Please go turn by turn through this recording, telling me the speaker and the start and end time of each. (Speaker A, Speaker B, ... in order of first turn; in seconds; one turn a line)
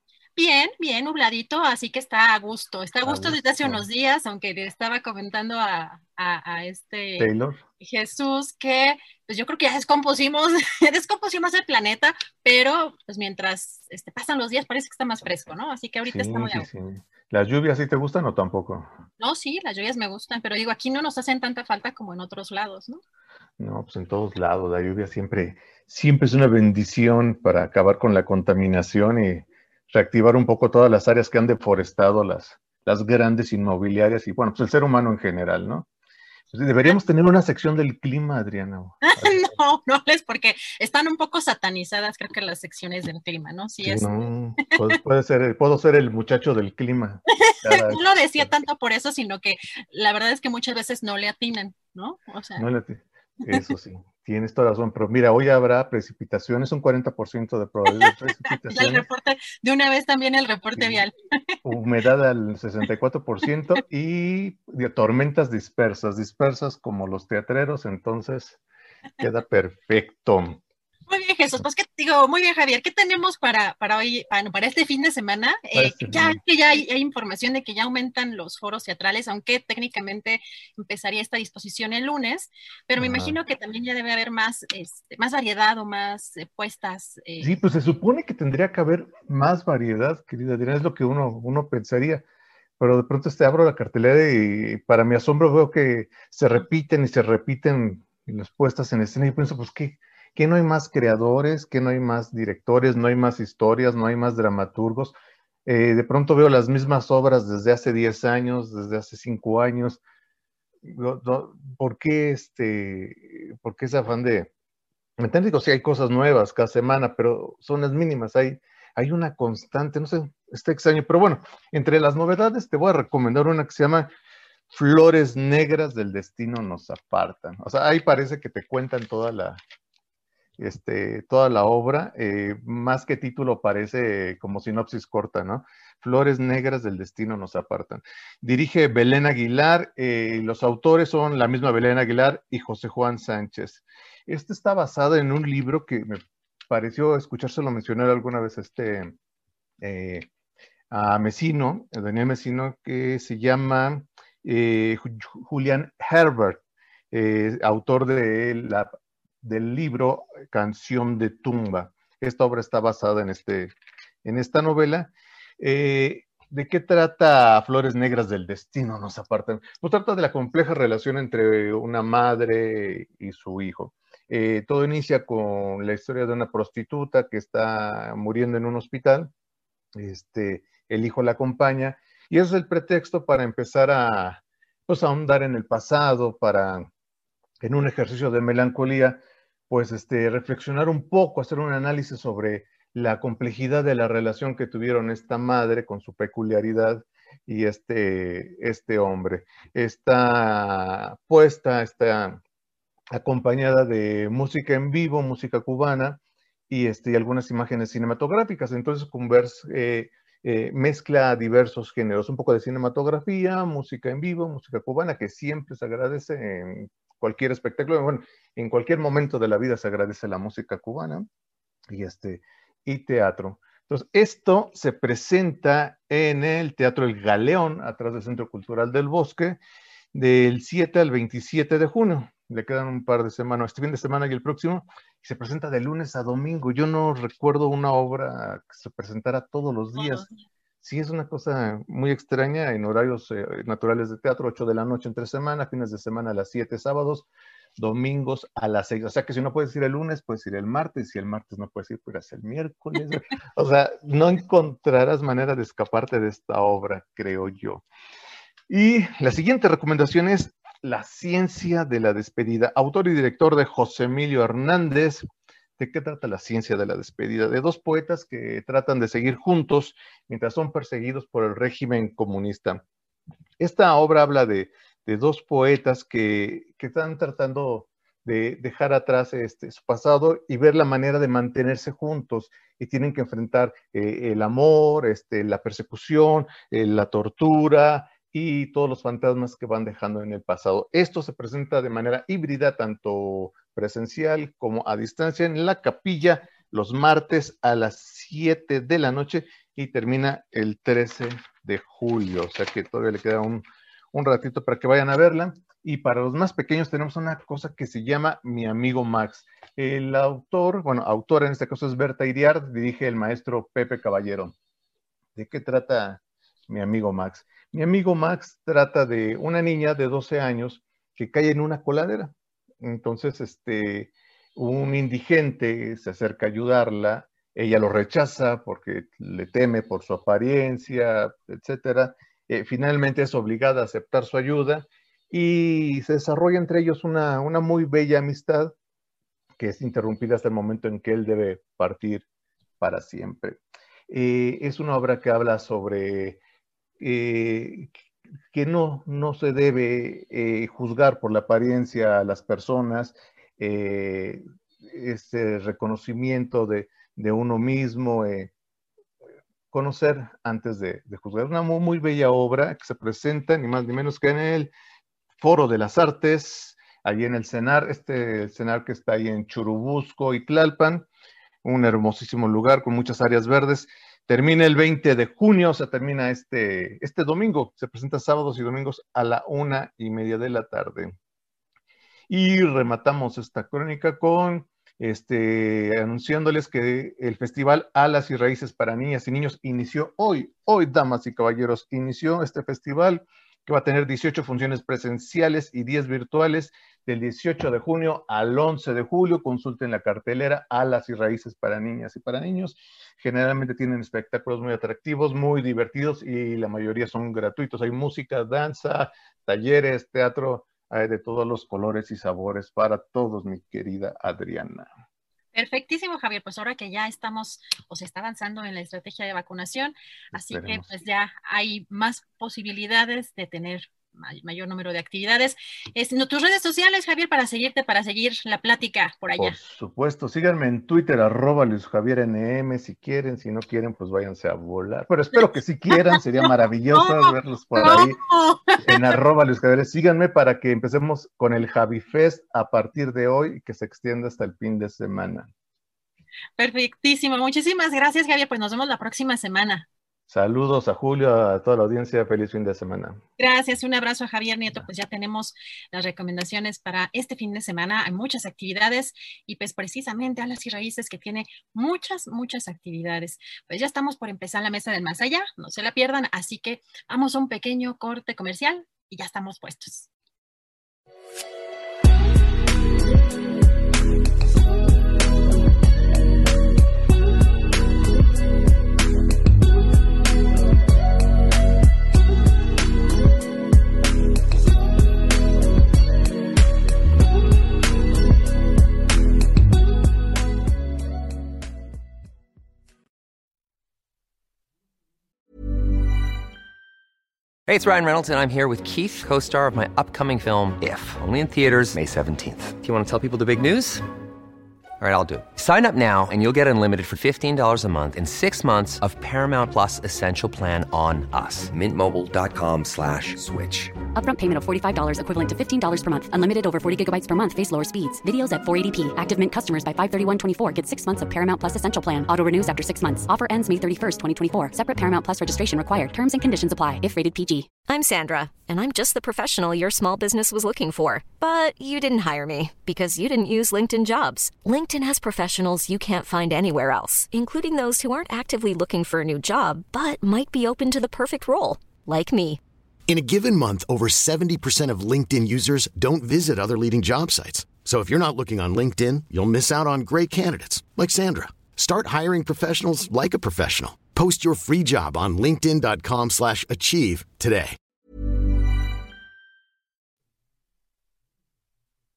Speaker A: 0.3-16.7
Speaker B: 3.0-3.8
Speaker B: 7.2-7.6
Speaker B: 16.0-18.9
Speaker A: 19.2-23.0
Speaker B: 23.6-35.9
Speaker B: 36.5-39.5
Speaker A: 39.0-44.1
Speaker B: 43.8-48.5
Speaker A: 47.5-52.6
Speaker B: 52.6-59.1
Speaker A: 58.7-61.1
Speaker B: 60.7-61.0
Speaker B: 61.6-68.6
Speaker B: 69.2-70.6
Speaker A: 71.1-87.6
Speaker B: 75.7-76.4
Speaker B: 83.0-83.3
Speaker B: 87.4-92.2
Speaker B: 92.8-110.0
Speaker B: 110.8-114.5
Speaker B: 115.2-124.1
Speaker B: 124.7-129.6
Speaker B: 130.6-149.1
Speaker B: 149.8-150.3
Speaker B: 150.9-158.9
Speaker B: 159.4-163.7
Speaker B: 164.2-179.3
Speaker B: 180.0-186.9
Speaker B: 187.6-202.4
Speaker B: 203.1-221.3
Speaker B: 221.9-229.6
Speaker B: 230.1-240.3
Speaker A: 240.0-240.2
Speaker B: 240.8-257.8
Speaker B: 258.7-272.8
Speaker B: 273.6-314.5
Speaker B: 315.4-338.7
Speaker B: 339.6-342.2
Speaker B: 342.8-343.6
Speaker B: 344.1-346.4
Speaker B: 347.0-347.9
Speaker B: 348.5-358.5
Speaker B: 359.7-364.7
Speaker B: 365.4-371.1
Speaker B: 371.6-381.1
Speaker B: 382.3-414.9
Speaker A: 415.5-429.6
Speaker B: 420.3-420.9
Speaker B: 429.4-438.2
Speaker A: 436.9-439.0
Speaker B: 438.8-445.5
Speaker A: 446.6-449.9
Speaker B: 450.3-453.2
Speaker A: 453.4-470.1
Speaker C: 497.7-504.0
Speaker C: 505.0-513.9
Speaker D: 514.1-527.7
Speaker E: 527.8-542.6
Speaker F: 543.1-557.8